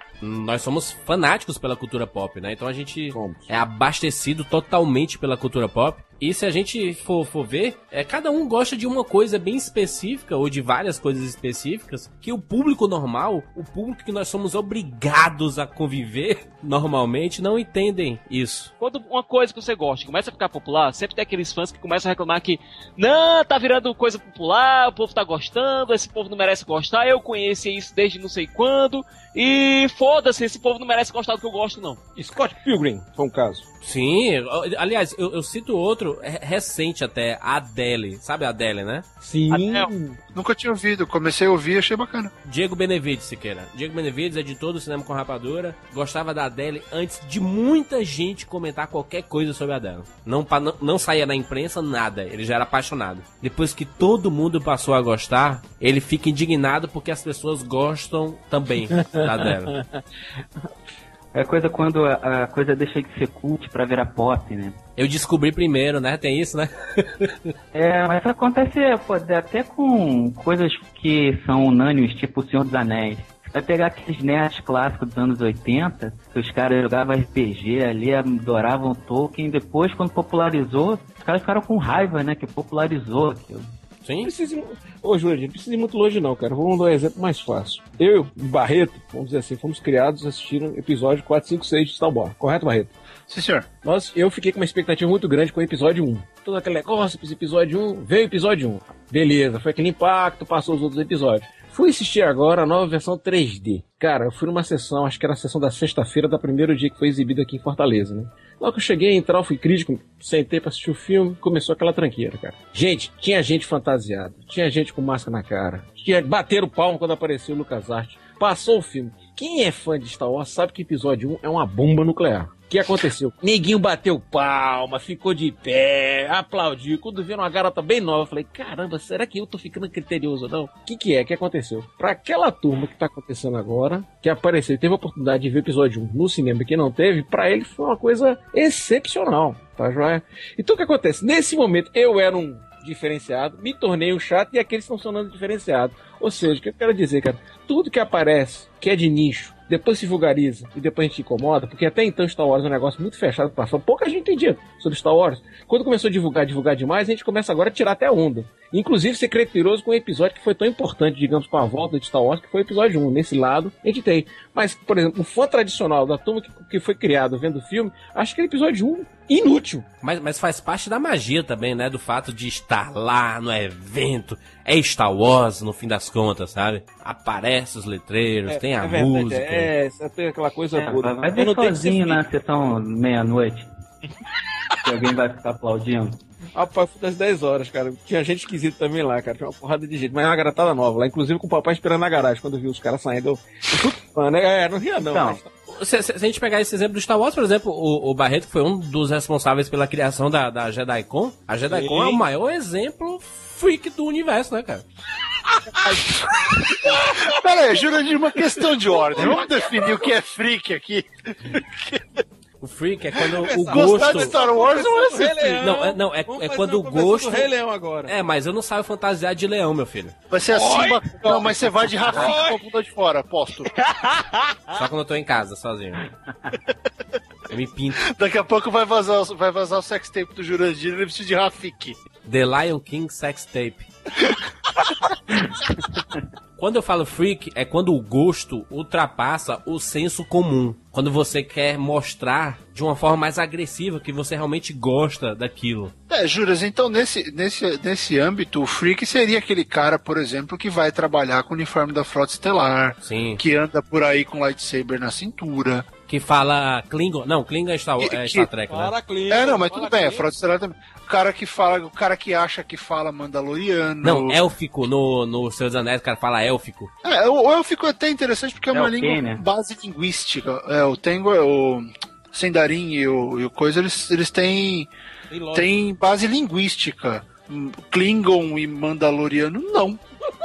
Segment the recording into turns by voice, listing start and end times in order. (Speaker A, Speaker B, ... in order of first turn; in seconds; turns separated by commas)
Speaker A: 0.2-18.7, Speaker B: 3.1-3.5, Speaker C: 18.8-32.0, Speaker B: 32.2-33.7, Speaker A: 33.8-39.0, Speaker B: 39.2-40.2, Speaker C: 39.5-39.9, Speaker D: 40.3-42.3, Speaker A: 42.4-59.7, Speaker B: 59.0-60.0, Speaker E: 61.3-64.8, Speaker A: 65.0-67.3, Speaker E: 67.7-83.7, Speaker A: 84.0-84.3, Speaker B: 84.2-92.9, Speaker D: 93.3-93.7, Speaker B: 93.8-169.9, Speaker A: 170.0-179.7, Speaker B: 178.5-182.2, Speaker E: 180.8-183.7, Speaker E: 184.8-186.2, Speaker B: 186.6-195.5, Speaker E: 195.1-195.4, Speaker A: 195.7-204.8, Speaker B: 201.7-202.2, Speaker B: 205.8-207.4, Speaker D: 205.8-212.0, Speaker B: 209.1-209.9, Speaker A: 212.6-214.4, Speaker D: 213.4-215.5, Speaker B: 213.4-218.1, Speaker A: 215.6-217.5, Speaker A: 218.1-220.1, Speaker D: 220.3-223.7, Speaker B: 220.5-222.6, Speaker C: 224.0-224.4, Speaker A: 224.7-226.1, Speaker A: 227.5-228.1, Speaker D: 228.0-232.0, Speaker A: 232.2-233.9, Speaker A: 236.6-245.9, Speaker D: 246.1-255.9, Speaker A: 253.0-253.4, Speaker A: 256.1-258.9, Speaker D: 258.0-258.5, Speaker B: 258.7-260.3, Speaker D: 259.3-264.4, Speaker A: 264.0-266.9, Speaker D: 267.0-274.9, Speaker E: 268.7-269.4, Speaker B: 275.3-275.7, Speaker D: 275.5-280.0